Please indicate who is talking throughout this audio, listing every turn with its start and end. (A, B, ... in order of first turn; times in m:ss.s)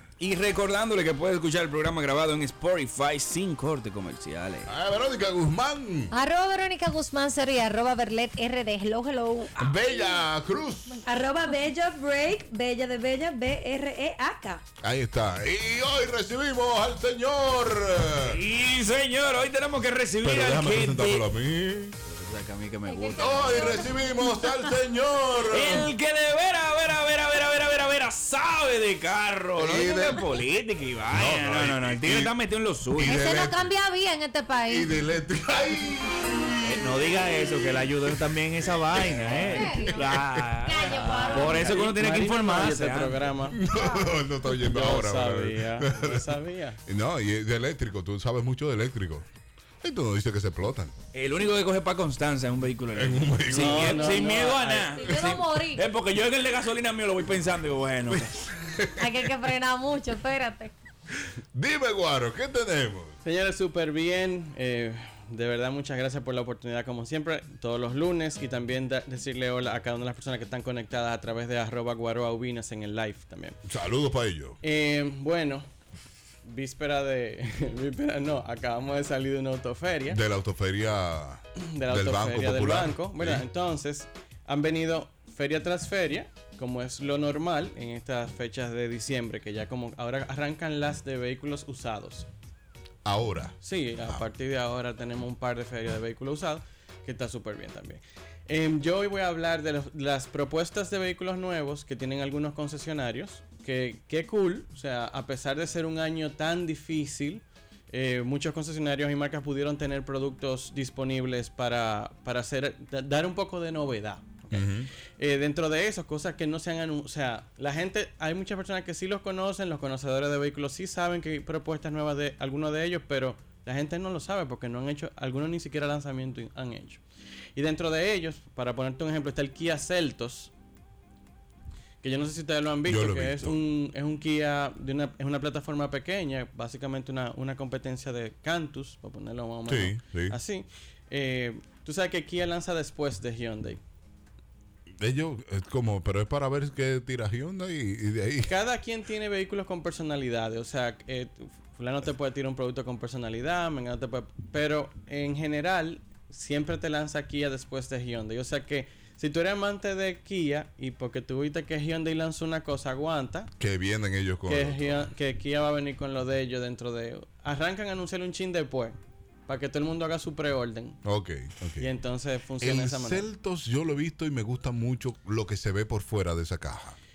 0:00.2-0:04.7 A
0:04.6-0:06.1 B
0:06.1-0:09.8 C
0:09.6-0:11.0 B
0:11.0-0:14.6 D
0:14.8-0:18.4 B
0:18.2-0:21.3 A
0:20.2-0:22.0 B
0:22.1-0:23.8 A
0:22.9-0:24.5 C
0:23.2-0:25.9 B
0:25.5-0:33.2 A
0:29.6-0:30.2 B
0:31.1-0:32.3 B
0:32.9-0:33.7 B
0:33.0-0:34.9 C
0:34.7-0:37.2 B
0:36.6-0:43.2 A
0:38.9-0:40.4 B
0:39.3-0:41.8 C
0:40.8-0:43.6 E
0:43.5-0:49.2 B
0:43.7-0:44.1 C
0:44.5-0:46.8 E
0:49.8-0:50.9 B
0:51.1-0:58.4 A
0:52.9-0:54.2 B
0:53.5-0:55.0 E
0:54.9-0:55.8 C
0:58.1-0:59.1 B
0:59.0-1:00.7 C
1:01.2-1:03.2 B
1:03.2-1:13.6 E
1:13.6-1:14.6 B
1:14.6-1:15.7 E
1:16.4-1:20.2 E
1:20.1-1:23.4 B
1:21.6-1:32.3 E
1:33.0-1:34.2 B
1:33.6-2:07.0 E
1:54.5-1:54.9 B
2:07.5-2:10.5 E
2:12.0-2:23.8 E
2:12.8-2:13.6 B
2:19.7-2:20.4 B
2:25.0-2:28.5 B
2:28.4-2:43.5 E
2:43.6-2:45.1 B
2:44.4-2:49.0 E
2:49.5-2:51.0 E
2:51.0-2:51.9 B
2:51.8-2:53.2 E
2:52.6-2:57.0 B